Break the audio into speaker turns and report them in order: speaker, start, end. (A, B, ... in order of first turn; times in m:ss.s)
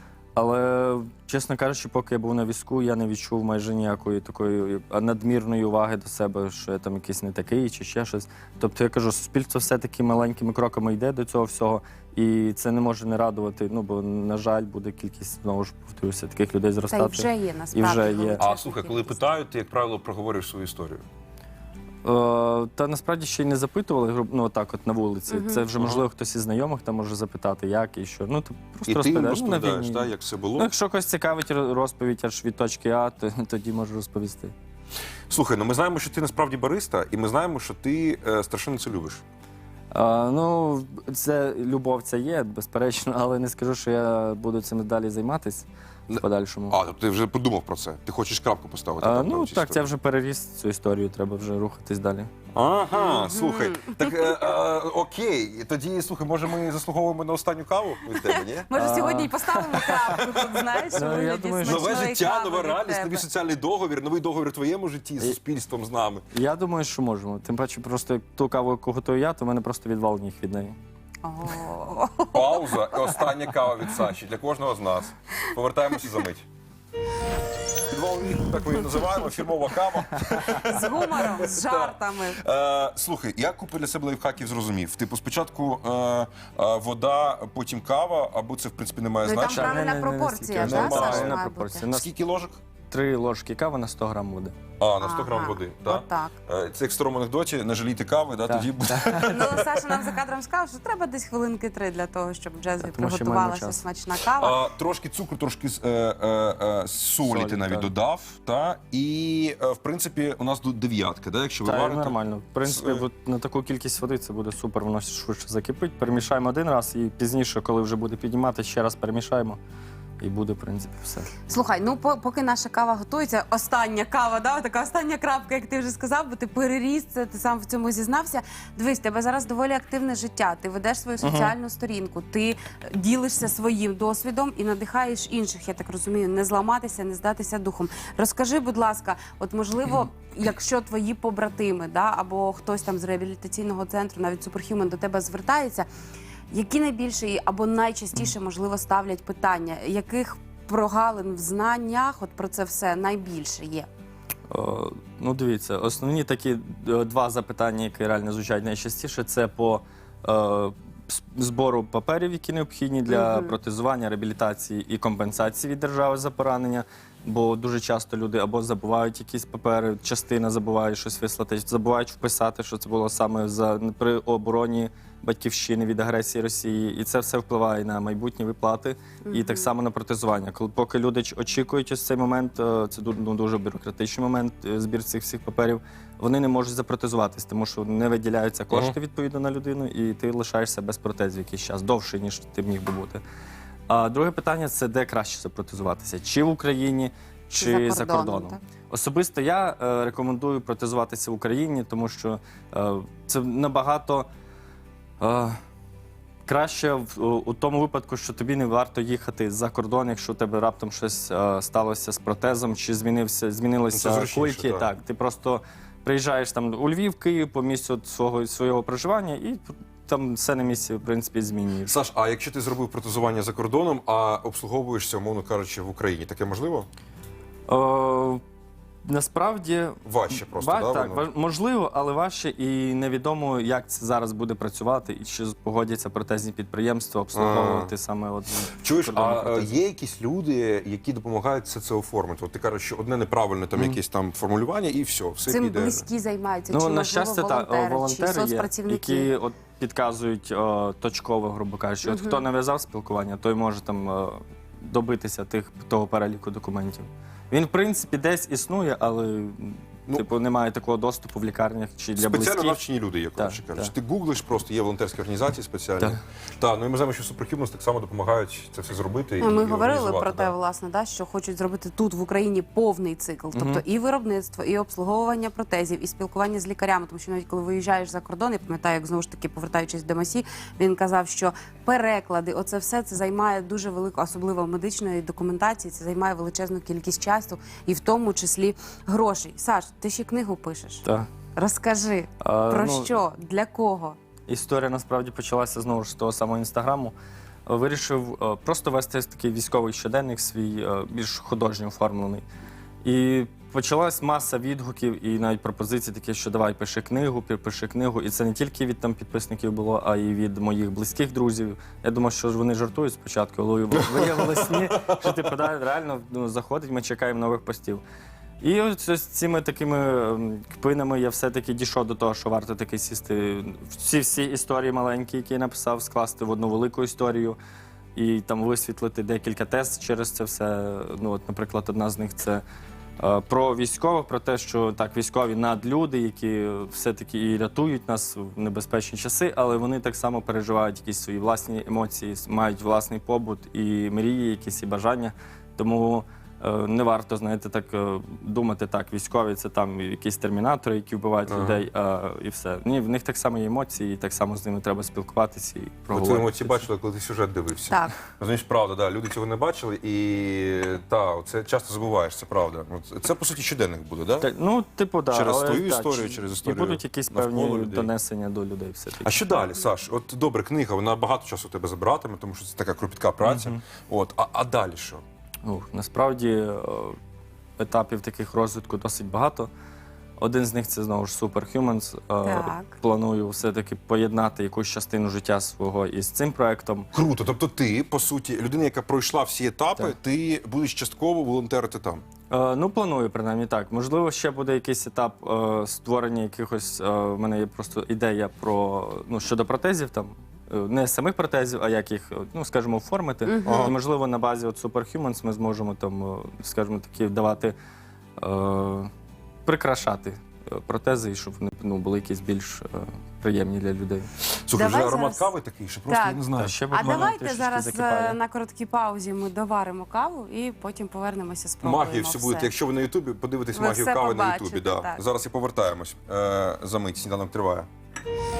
0:00.4-0:18.4 A
0:16.9-0:19.3 B
0:18.4-0:21.0 C
0:22.0-0:34.5 A
0:25.3-0:25.6 B
0:25.8-0:26.0 C
0:28.9-0:30.7 C
0:35.3-0:39.2 C
0:39.9-0:46.8 A
0:46.1-0:49.9 C
0:49.0-0:52.3 A
0:52.5-0:58.7 C
0:52.9-0:54.4 B
0:58.1-1:03.2 B
0:58.8-0:59.9 A
1:00.9-1:02.0 A
1:01.6-1:06.2 C
1:06.3-1:10.8 A
1:11.2-1:13.1 B
1:12.3-1:16.4 C
1:17.9-1:29.8 C
1:20.5-1:22.4 B
1:29.2-1:31.9 B
1:29.4-1:32.1 A
1:30.6-1:32.6 C
1:32.9-1:34.5 A
1:34.8-1:39.6 C
1:35.0-1:36.4 B
1:38.4-1:39.3 A
1:39.2-1:44.6 B
1:42.8-1:43.8 A
1:44.3-1:53.0 C
1:47.2-1:47.9 A
1:51.6-1:59.6 A
2:00.2-2:01.3 A
2:01.5-2:25.9 B
2:11.2-2:11.5 A
2:26.5-2:33.9 B
2:34.5-3:13.2 A
2:43.1-2:43.6 B
2:59.2-2:59.7 B
3:13.9-3:24.3 A
3:17.5-3:18.6 B
3:25.2-3:25.6 A
3:26.4-3:41.9 A
3:33.9-3:34.9 C
3:41.9-3:46.9 C
3:47.7-3:48.4 A
3:49.0-3:59.7 A
3:50.0-3:51.2 C
3:57.3-3:57.9 C
3:58.8-4:06.1 C
4:05.5-4:09.3 B
4:06.7-4:22.8 A
4:12.0-4:12.5 B
4:22.2-4:30.5 C
4:23.3-4:23.9 A
4:29.4-4:51.0 B
4:33.5-4:33.8 A
4:51.0-4:51.3 A
4:51.6-4:54.2 B
4:52.4-4:53.1 A
4:54.5-4:57.1 A
4:57.6-5:02.4 A
5:03.0-5:18.0 A
5:18.6-5:27.6 A
5:28.1-5:32.6 A
5:33.2-5:56.8 A
5:51.5-5:51.8 C
5:56.1-6:04.5 C
5:57.9-5:58.1 B
6:04.4-6:09.3 A
6:05.3-6:08.1 C
6:09.2-6:15.2 C
6:13.4-6:13.8 A
6:15.6-6:17.2 A
6:17.8-6:19.7 A
6:20.4-6:27.1 A
6:22.4-6:23.0 B
6:27.1-6:32.2 C
6:32.5-6:47.7 A
6:43.5-6:44.0 B
6:43.6-6:43.9 C
6:48.4-6:49.1 A
6:49.6-6:54.3 A
6:54.6-6:56.8 C
6:54.7-6:55.5 B
6:56.1-7:02.7 B
6:56.6-6:58.4 A
7:01.8-7:07.9 C
7:03.7-7:05.2 B